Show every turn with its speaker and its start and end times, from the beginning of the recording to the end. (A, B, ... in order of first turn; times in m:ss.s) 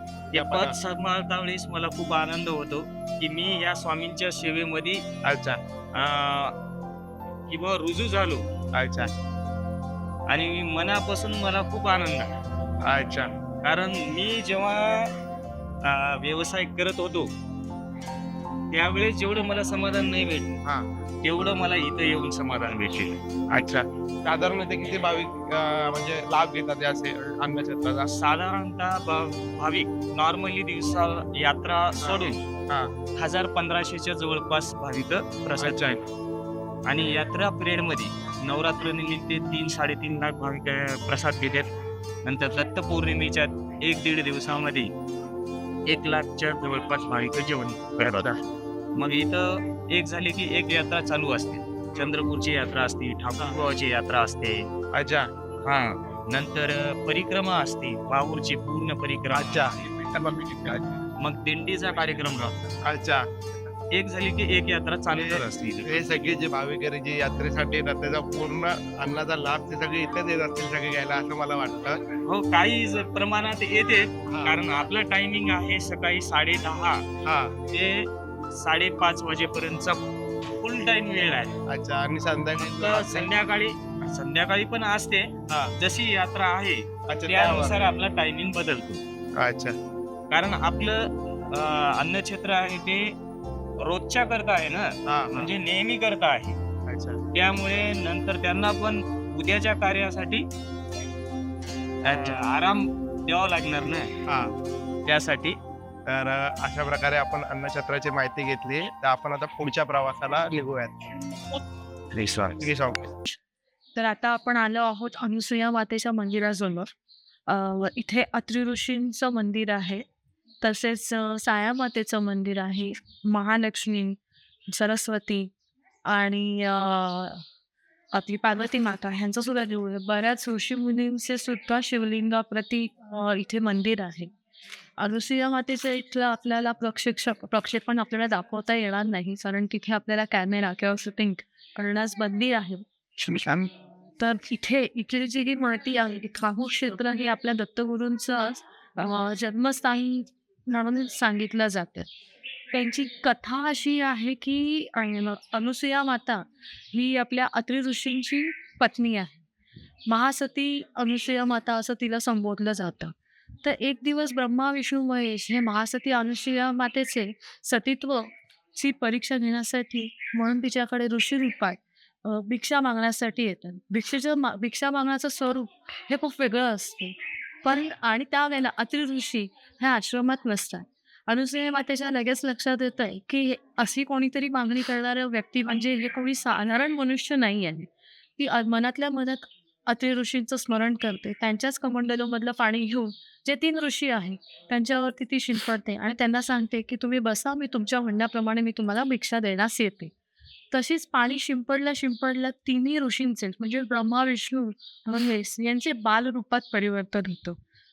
0:00.3-0:05.0 A
0:00.3-0:00.8 B
0:05.2-0:05.6 B
0:06.0-0:06.5 A
0:07.5-0:08.4 A
0:08.8-0:09.1 B
0:10.3-0:12.3 A
0:12.8-0:13.3 B
0:13.6-0:15.1 A
0:15.8-0:17.3 A
0:18.7-0:20.5 A
0:21.2-0:23.2 A
0:23.5-0:28.1 B
0:28.1-0:32.4 A
0:32.0-0:32.9 B
0:33.2-0:36.0 A
0:35.6-0:36.0 B
0:36.9-0:41.7 A
0:42.2-0:44.9 A
0:45.9-0:48.4 A
0:49.0-0:54.7 A
0:54.9-0:55.3 B
0:55.6-0:59.8 A
0:59.3-1:01.0 B
1:01.2-1:02.8 A
1:02.8-1:03.3 B
1:03.9-1:06.2 A
1:05.2-1:12.0 B
1:12.2-1:17.0 A
1:14.3-1:14.6 B
1:17.2-1:17.5 B
1:17.7-1:20.0 A
1:20.6-1:21.5 A
1:21.7-1:23.3 B
1:22.6-1:29.0 A
1:27.1-1:27.9 B
1:29.4-1:29.8 B
1:30.3-1:33.1 A
1:33.8-1:36.6 A
1:35.1-1:35.5 B
1:36.9-1:37.2 B
1:37.3-1:40.4 A
1:42.0-1:44.1 A
1:42.1-1:42.4 B
1:44.3-1:44.5 B
1:45.0-1:45.6 A
1:46.1-1:51.1 B
1:52.1-1:52.7 A
1:52.6-1:53.1 B
1:54.0-1:56.9 C
1:57.5-2:00.0 C
2:00.6-2:04.2 C
2:04.7-2:05.5 C
2:06.1-2:07.4 C
2:08.1-2:14.3 C
2:15.0-2:22.8 C
2:23.2-2:23.7 B
2:24.2-2:32.1 C
2:32.7-2:39.4 C
2:40.1-2:43.1 C
2:43.6-3:07.9 C
3:08.4-3:20.1 C
3:20.7-3:27.6 C